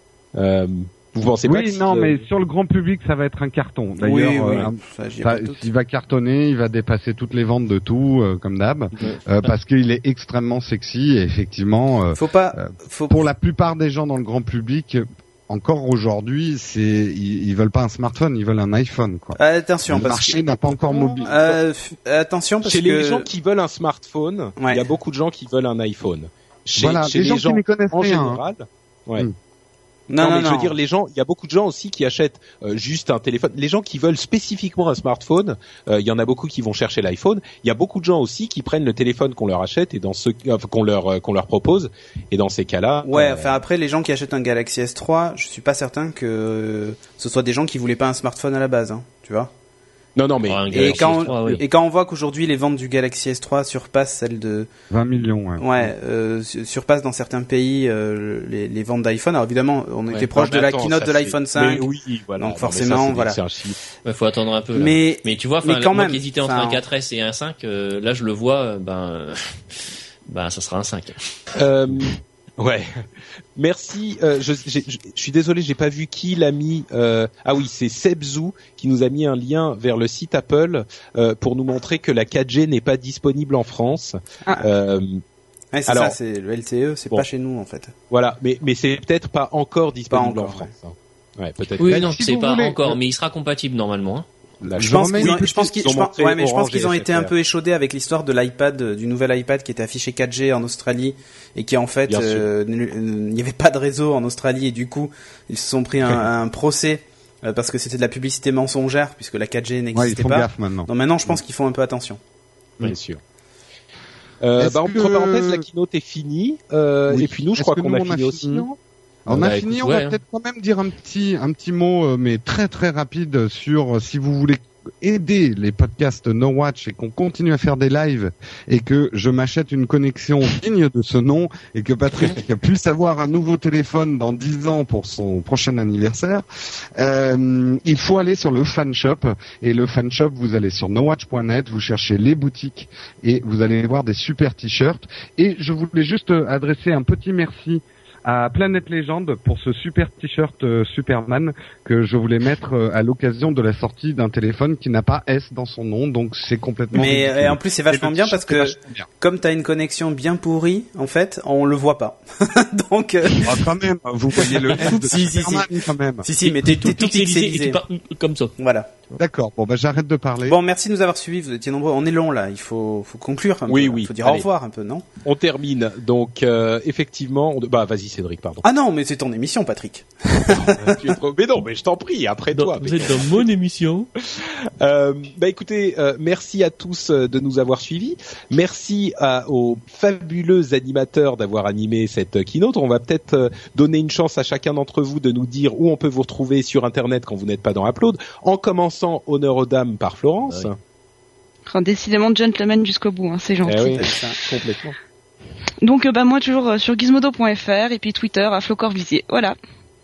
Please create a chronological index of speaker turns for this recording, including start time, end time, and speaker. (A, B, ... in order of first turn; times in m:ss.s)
0:00.3-0:02.2 A
0:01.4-0:21.3 B
0:04.0-0:05.6 C
0:12.1-0:13.2 C
0:19.4-0:20.4 C
0:21.2-0:23.3 C
0:21.3-0:21.5 A
0:22.6-0:29.3 A
0:24.6-0:24.8 C
0:26.8-0:28.4 B
0:30.1-0:30.7 C
0:30.2-0:43.6 A
0:43.1-0:49.5 C
0:50.2-0:51.6 A
0:50.5-0:51.6 D
0:50.7-0:54.7 C
0:54.9-0:55.9 B
0:55.6-1:01.8 C
1:00.1-1:03.8 A
1:02.4-1:03.4 C
1:04.0-1:09.6 D
1:04.7-1:06.8 C
1:10.3-1:11.2 D
1:11.5-1:13.0 A
1:13.6-1:25.2 A
1:25.7-1:27.9 C
1:25.9-1:26.2 A
1:28.1-1:32.0 A
1:30.1-1:30.7 C
1:31.8-1:34.2 D
1:31.8-1:33.0 B
1:34.6-1:37.3 A
1:34.7-1:35.7 B
1:34.8-1:52.2 C
1:42.1-1:42.5 A
1:49.9-1:50.9 B
1:52.8-1:53.2 A
1:54.4-1:58.7 A
1:54.6-1:55.6 B
1:57.1-1:58.7 B
1:59.2-2:16.4 B
1:59.3-2:00.2 D
2:17.0-2:39.1 B
2:36.9-2:43.7 C
2:43.4-2:46.3 B
2:44.4-2:47.8 C
2:46.4-2:48.6 D
2:48.6-2:48.9 C
2:49.2-2:50.6 B
2:50.5-2:55.0 C
2:53.7-2:54.5 A
2:55.2-2:58.6 A
2:58.6-3:01.1 C
3:00.5-3:03.3 A
3:02.5-3:04.1 D
3:04.2-3:20.8 A
3:21.7-3:24.0 E
3:23.6-3:25.0 A
3:23.8-3:24.4 C
3:25.8-3:29.6 E